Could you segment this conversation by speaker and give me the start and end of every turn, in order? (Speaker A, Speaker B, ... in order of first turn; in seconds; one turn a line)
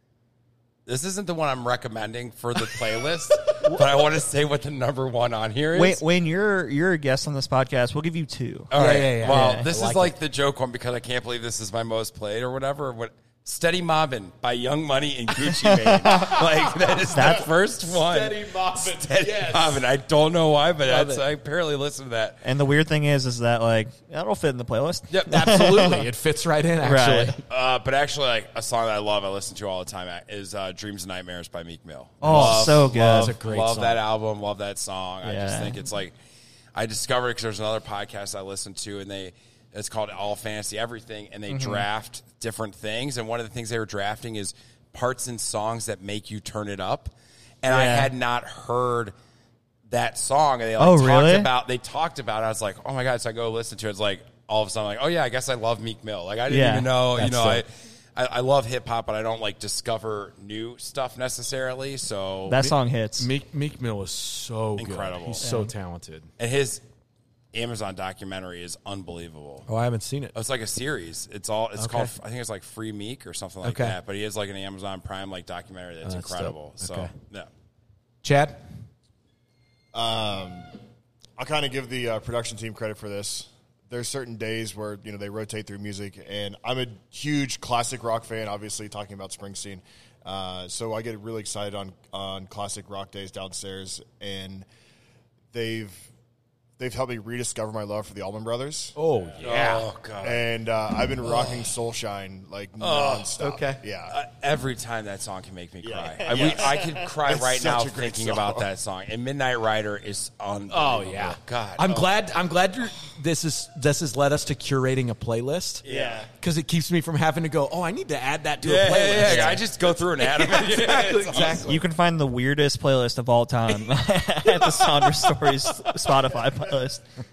Speaker A: 0.8-6.0
Speaker B: 5.7-9.7
Speaker A: 8.7-22.4
Speaker C: 8.7-10.1
Speaker B: 15.5-17.5
Speaker C: 17.1-19.9
Speaker C: 20.9-21.2
Speaker B: 22.4-26.1
Speaker A: 25.1-25.4
Speaker C: 25.3-27.4
Speaker B: 26.8-27.4
Speaker A: 27.5-36.1
Speaker B: 32.2-33.4
Speaker C: 32.2-34.0
Speaker B: 35.2-35.8
Speaker A: 36.7-49.1
Speaker B: 41.5-41.8
Speaker B: 47.7-48.1
Speaker A: 49.9-62.7
Speaker B: 50.8-51.5
Speaker B: 56.5-56.9
Speaker C: 57.1-57.6
Speaker B: 62.5-63.3
Speaker C: 63.2-66.3
Speaker A: 64.8-65.5
Speaker B: 65.4-65.7
Speaker A: 66.4-66.8
Speaker A: 67.5-69.7
Speaker C: 69.7-70.3
Speaker A: 70.3-77.5
Speaker C: 71.8-72.1
Speaker C: 73.6-74.0
Speaker C: 76.0-77.1
Speaker C: 78.2-78.6
Speaker D: 79.9-80.7
Speaker D: 81.4-94.7
Speaker D: 95.5-96.1
Speaker D: 96.8-98.9
Speaker C: 99.0-99.9
Speaker A: 99.4-100.5
Speaker D: 100.2-104.2
Speaker A: 102.8-103.3
Speaker C: 103.4-103.8
Speaker A: 104.1-112.1
Speaker D: 105.8-108.7
Speaker B: 106.4-107.0
Speaker C: 110.7-115.8
Speaker A: 115.8-116.2
Speaker B: 115.8-116.3
Speaker C: 116.4-121.8
Speaker A: 118.6-121.8
Speaker B: 119.2-119.6
Speaker B: 121.7-127.0